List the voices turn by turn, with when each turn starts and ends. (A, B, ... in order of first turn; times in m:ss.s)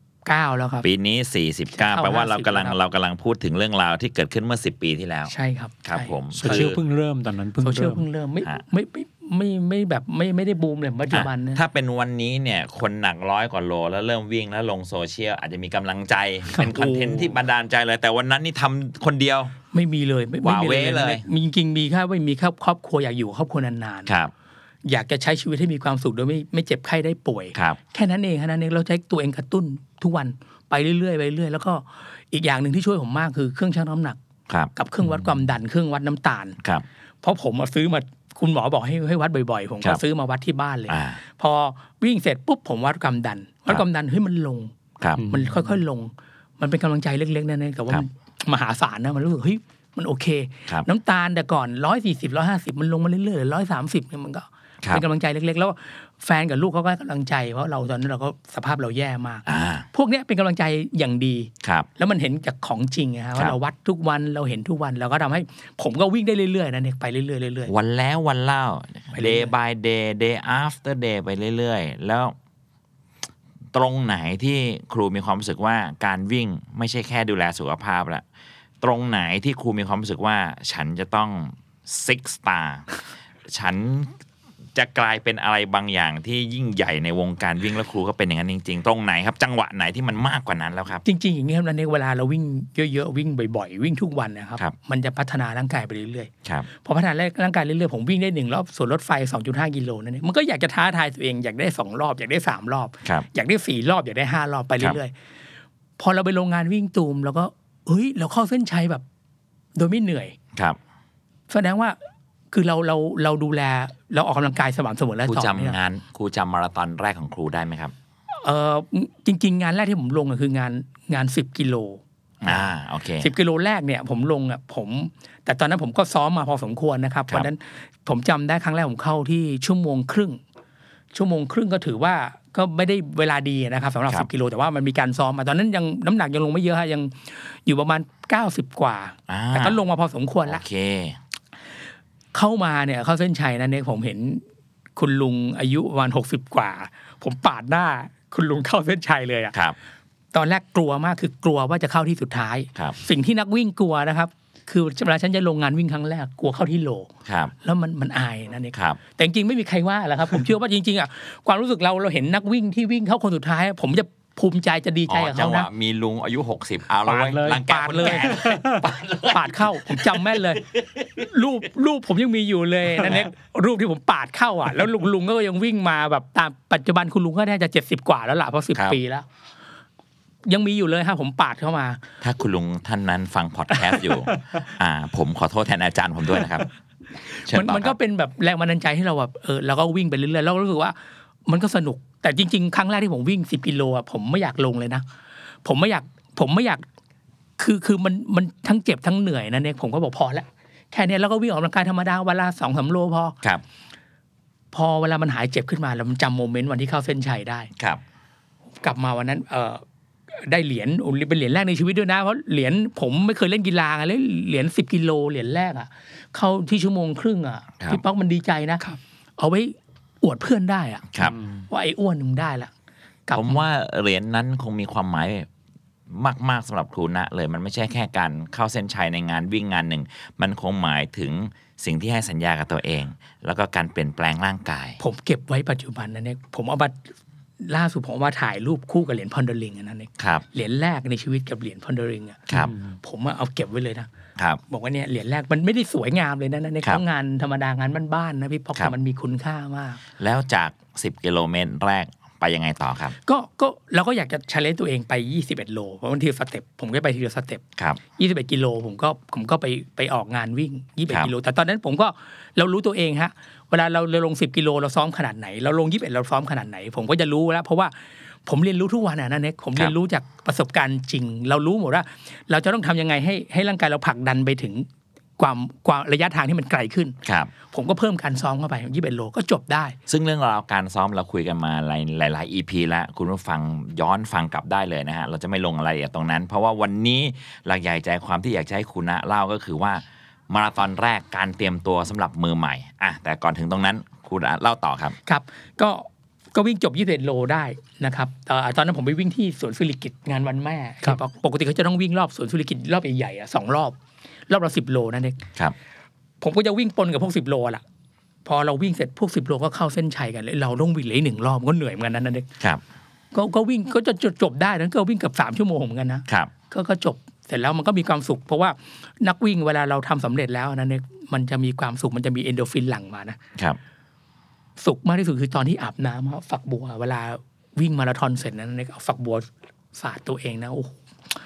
0:00.2-0:00.9 A
0:00.8-0:05.3 B
0:01.7-0:02.8 A
0:05.3-0:06.7 A
0:05.8-0:06.8 B
0:06.4-0:08.0 C
0:07.6-0:11.6 A
0:11.1-0:19.6 B
0:16.7-0:17.3 A
0:19.7-0:24.1 A
0:20.4-0:21.2 B
0:24.1-0:24.3 B
0:24.8-0:34.2 A
0:34.8-0:36.6 A
0:37.2-0:44.7 A
0:40.9-0:41.2 B
0:45.2-0:45.6 C
0:45.3-1:07.7 A
0:59.5-0:59.9 B
1:01.6-1:01.9 B
1:07.7-1:12.4 B
1:09.1-1:09.5 A
1:13.7-1:18.2 B
1:18.8-1:22.9 B
1:23.5-1:24.2 B
1:24.8-1:31.0 B
1:31.0-1:45.1 A
1:46.0-1:49.0 A
1:49.8-1:50.4 A
1:51.5-1:52.0 A
1:52.5-1:55.8 A
1:55.3-1:57.9 B
1:58.4-2:02.7 A
2:02.4-2:03.3 B
2:03.2-2:10.4 A
2:11.1-2:20.6 A
2:19.3-2:19.8 B
2:20.5-2:21.2 B
2:22.3-2:24.4 A
2:25.0-2:29.6 A
2:30.3-2:37.1 A
2:37.2-2:37.5 B
2:37.6-2:45.7 A
2:38.7-2:39.0 B
2:45.1-2:51.3 B
2:47.0-2:48.8 C
2:47.6-2:48.4 A
2:49.3-2:50.6 A
2:51.3-2:59.3 A
2:53.0-2:53.3 B
3:00.5-3:02.0 A
3:02.2-3:06.7 B
3:07.3-3:15.0 A
3:07.5-3:08.0 B
3:15.6-3:16.8 A
3:17.6-3:23.4 A
3:24.7-3:27.7 A
3:27.8-3:28.0 B
3:28.8-3:38.8 A
3:39.4-3:41.0 A
3:41.1-3:41.4 B
3:41.2-3:41.5 C
3:41.7-3:42.7 A
3:43.3-3:43.6 A
3:43.4-3:45.5 B
3:46.1-3:55.0 B
3:55.0-3:57.0 A
3:57.6-4:04.1 A
4:00.2-4:00.4 B
4:04.7-4:10.0 A
4:10.2-4:13.2 B
4:13.2-4:17.6 A
4:18.2-4:27.9 A
4:28.5-4:34.9 A
4:35.4-4:37.2 A
4:37.2-4:37.5 B
4:37.7-4:40.0 A
4:40.1-4:55.2 B
4:55.3-5:04.0 A
5:04.5-5:05.4 A
5:06.4-5:07.8 A
5:08.4-5:12.5 A
5:13.3-5:23.4 A
5:24.8-5:31.0 A